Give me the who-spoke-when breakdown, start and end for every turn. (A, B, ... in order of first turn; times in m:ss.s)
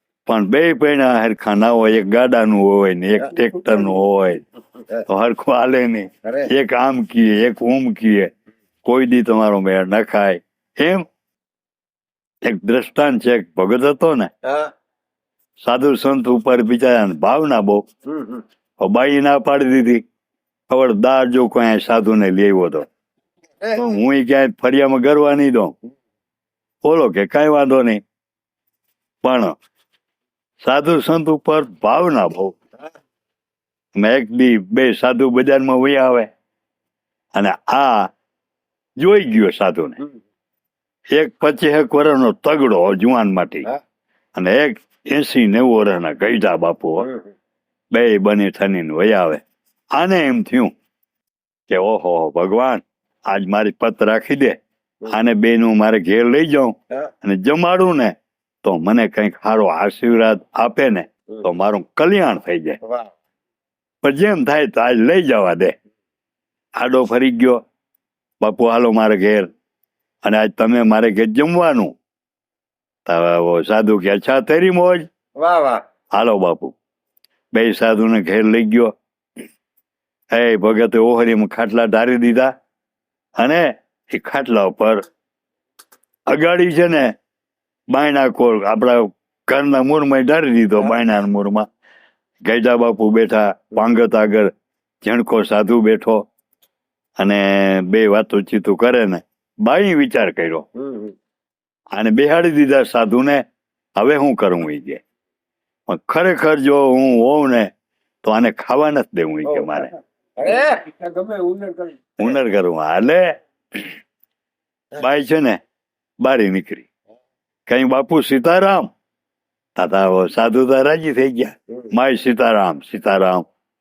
0:00.2-0:04.4 A
0:05.0-0:08.3 A
0:08.8-0:11.0 A
0:12.4-0:14.3 A
0:14.4-0:14.7 B
0:15.6-0:17.8 A
0:18.1-0:18.4 B
0:18.8-0:20.0 A
0:20.7-0:22.9 A
0:23.6-0:25.7 A
0:26.8-0:28.0 A
0:29.2-0:29.6 A
0:30.6-0:32.6 A
0:33.9-0:36.3 A
0:37.3-0:38.1 A
0:39.0-0:40.0 A
0:41.1-0:43.7 A
0:44.3-0:47.1 A
0:47.9-0:49.4 A
0:50.0-0:50.7 A
0:51.7-1:02.8 A
1:02.8-1:03.1 B
1:04.0-1:05.7 A
1:06.8-1:07.6 A
1:08.4-1:09.5 A
1:10.2-1:12.0 A
1:13.0-1:15.1 A
1:15.4-1:15.8 B
1:16.1-1:16.8 A
1:17.5-1:18.9 A
1:20.3-1:22.5 A
1:23.4-1:25.0 A
1:26.3-1:27.1 A
1:27.9-1:31.7 A
1:32.4-1:36.2 A
1:37.2-1:40.7 A
1:40.8-1:41.1 B
1:41.9-1:43.4 A
1:44.0-1:45.0 A
1:45.9-1:47.7 A
1:48.2-1:49.9 A
1:49.5-1:49.8 B
1:50.4-1:51.9 B
1:52.2-1:53.3 A
1:55.0-1:55.6 A
1:56.2-1:56.9 A
1:57.7-1:58.9 A
1:59.8-2:03.5 A